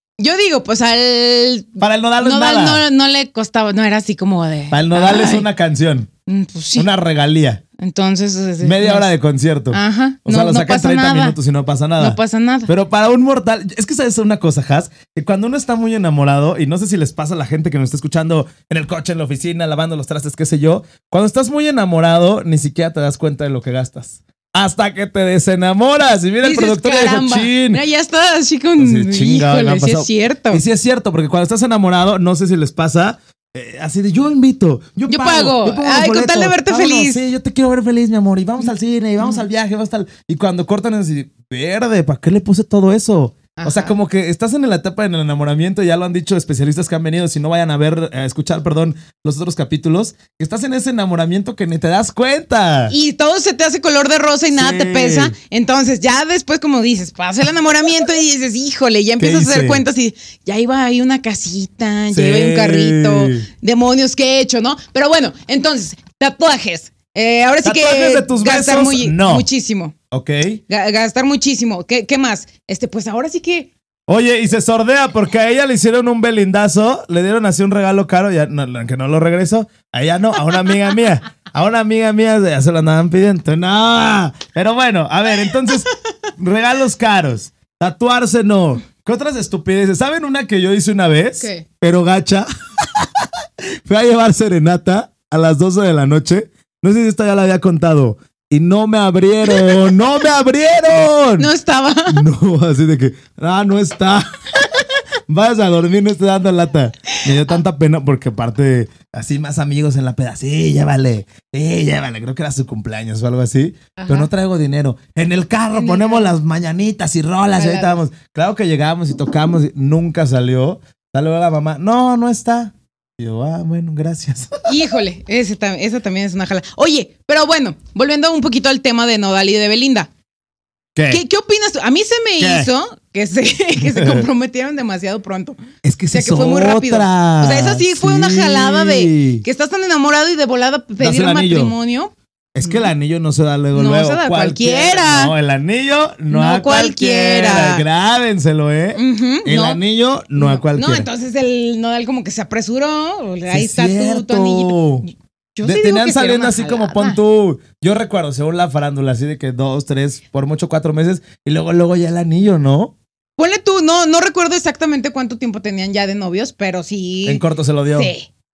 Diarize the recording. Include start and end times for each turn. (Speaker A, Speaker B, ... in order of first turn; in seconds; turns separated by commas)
Speaker A: 0.2-5.5, Speaker B: 1.8-2.8, Speaker B: 4.7-6.1, Speaker A: 6.3-6.9, Speaker B: 6.8-7.6, Speaker A: 7.8-9.1, Speaker B: 8.6-27.8, Speaker A: 9.7-11.3, Speaker A: 12.0-12.7, Speaker A: 26.4-30.6, Speaker B: 28.8-52.9, Speaker A: 35.1-37.2, Speaker A: 43.6-43.9, Speaker A: 52.9-69.9, Speaker B: 54.5-55.3, Speaker B: 59.2-59.8, Speaker B: 62.1-63.5, Speaker B: 67.6-69.5, Speaker B: 70.1-70.6, Speaker A: 70.7-73.7, Speaker B: 74.1-93.3, Speaker A: 91.4-91.7, Speaker B: 93.8-101.5, Speaker A: 99.5-99.8, Speaker A: 101.4-102.2, Speaker B: 102.0-104.7, Speaker B: 105.3-124.7, Speaker A: 114.0-114.3, Speaker A: 115.7-116.3, Speaker A: 117.6-118.0, Speaker A: 124.7-130.1, Speaker B: 130.9-131.2, Speaker A: 131.1-135.6, Speaker B: 132.4-132.7, Speaker B: 133.8-134.3, Speaker B: 135.8-139.4, Speaker A: 136.1-142.9, Speaker B: 141.0-141.7, Speaker B: 142.5-151.1, Speaker A: 143.7-145.3, Speaker A: 146.3-147.8, Speaker A: 148.9-149.8, Speaker A: 150.3-157.2, Speaker B: 153.5-155.1, Speaker B: 155.6-162.9, Speaker A: 163.4-168.3, Speaker B: 167.2-168.1